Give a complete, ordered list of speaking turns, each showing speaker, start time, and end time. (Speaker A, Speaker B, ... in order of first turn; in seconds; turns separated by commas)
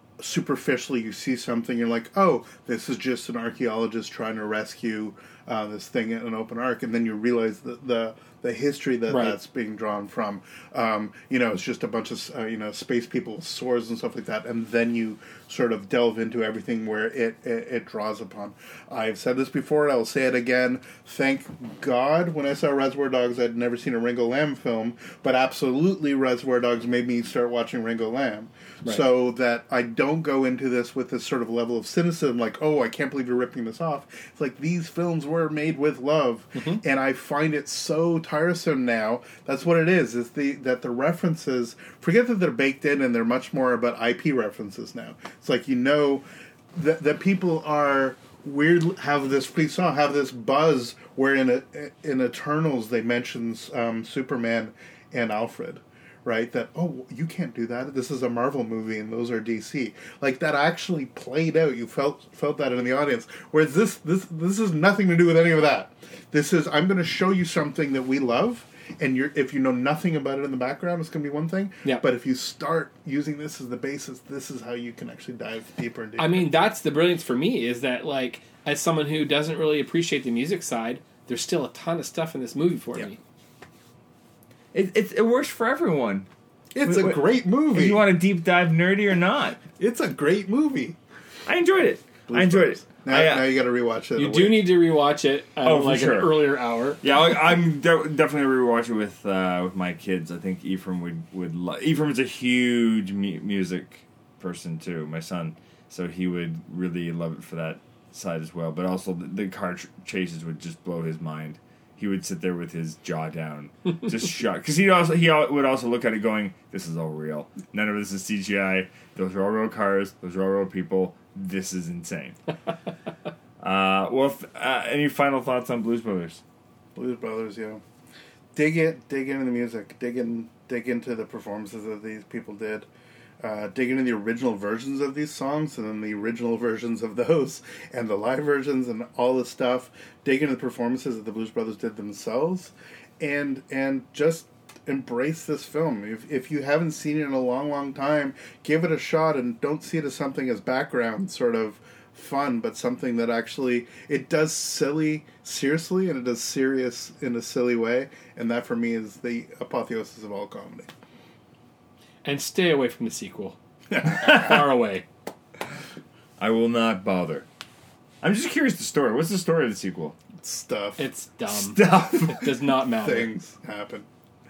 Speaker A: 0.2-76.5, Speaker B: 9.1-9.4, Speaker B: 36.5-36.8, Speaker B: 76.2-83.2, Speaker C: 84.7-86.3, Speaker A: 86.7-88.0, Speaker C: 86.8-89.6, Speaker A: 89.8-91.0, Speaker C: 91.5-93.5, Speaker A: 92.3-94.7, Speaker B: 94.2-97.0, Speaker C: 95.7-96.4, Speaker C: 97.0-122.4, Speaker C: 123.6-126.4, Speaker A: 127.0-127.8, Speaker A: 128.6-132.9, Speaker A: 133.4-160.9, Speaker B: 162.2-165.1, Speaker A: 163.9-164.7, Speaker C: 166.4-167.5, Speaker C: 168.2-170.2, Speaker A: 170.4-171.1, Speaker B: 171.0-173.3, Speaker C: 171.5-172.4, Speaker A: 173.0-174.1